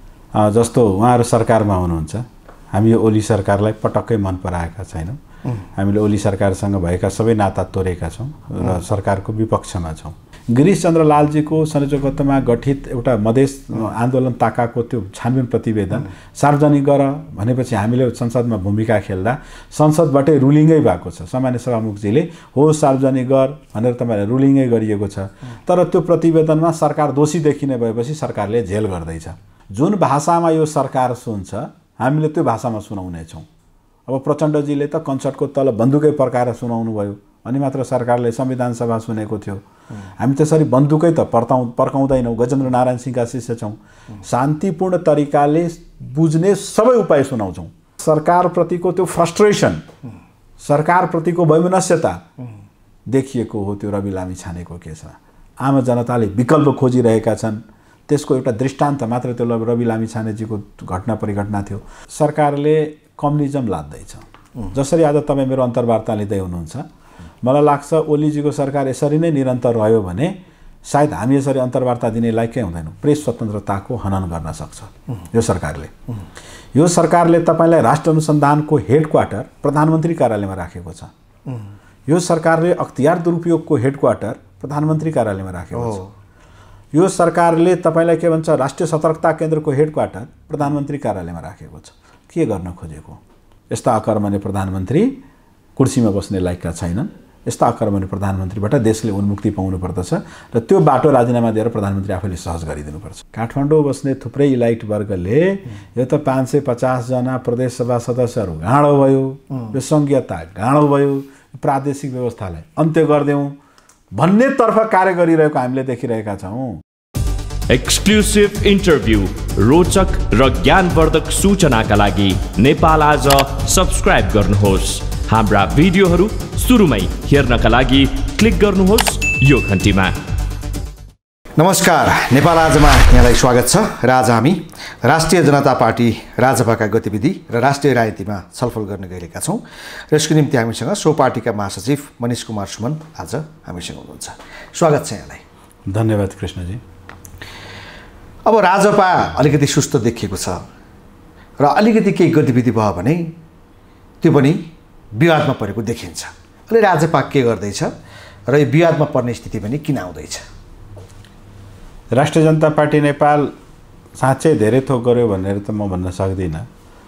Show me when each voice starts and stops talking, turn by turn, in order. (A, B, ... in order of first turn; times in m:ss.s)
0:00.3-0:05.2 A
0:05.8-0:33.4 A
0:34.1-0:39.6 A
0:40.2-0:49.8 A
0:50.6-0:52.2 A
0:53.1-1:06.9 A
1:07.4-1:15.9 A
1:16.8-1:21.1 A
1:22.1-1:26.0 A
1:25.7-1:26.1 B
1:26.9-1:35.2 A
1:35.8-1:53.6 A
1:54.2-1:56.8 A
1:57.7-2:10.2 C
2:11.6-2:25.4 B
2:25.9-2:26.8 A
2:28.5-2:30.6 B
2:31.6-2:33.3 B
2:34.2-2:34.6 B
2:35.2-2:37.9 B
2:38.5-2:40.4 B
2:42.1-2:43.5 A
2:44.2-2:46.7 A